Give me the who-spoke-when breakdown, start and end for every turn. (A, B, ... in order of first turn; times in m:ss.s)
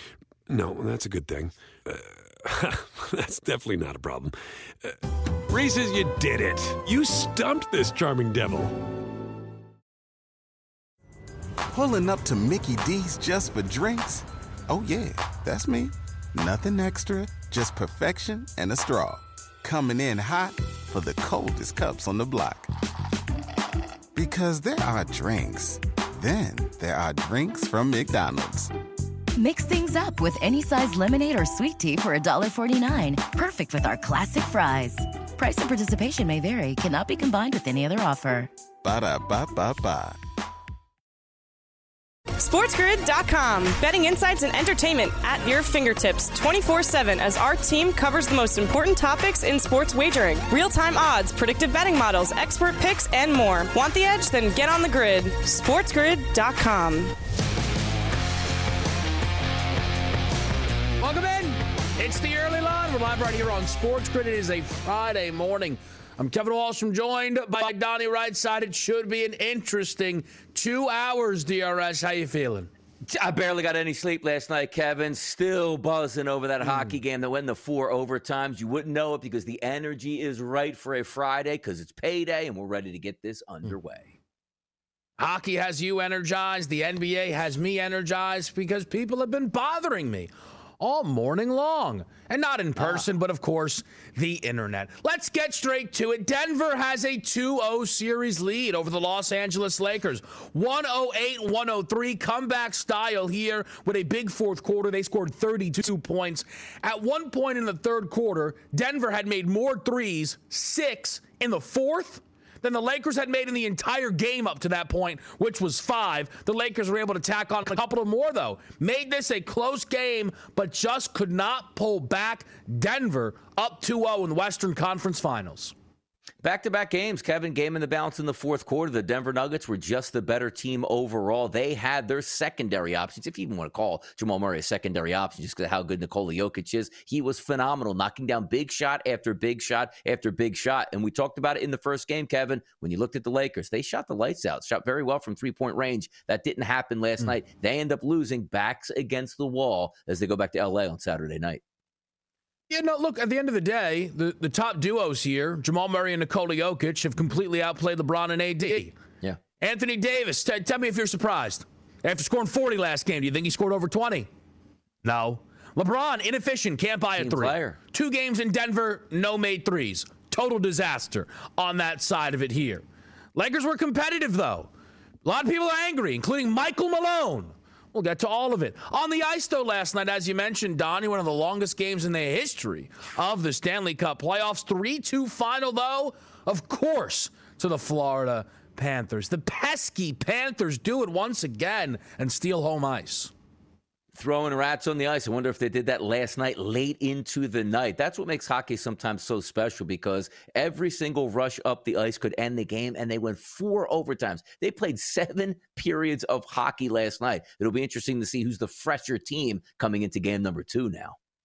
0:00.5-0:08.9 A
0:11.7-0:22.7 B
0:24.1-0:28.7 B
0:29.4-0:38.5 C
0:38.8-0:40.2 B
0:42.4-0:57.1 D
1:01.0-1:12.7 E
1:13.1-1:24.1 F
1:25.2-2:05.8 E
2:06.4-2:31.6 F
2:32.7-2:38.9 E
2:39.6-2:44.3 E
2:45.0-2:54.7 E
2:47.2-2:47.8 F
2:55.2-3:13.3 E
3:14.2-3:31.2 F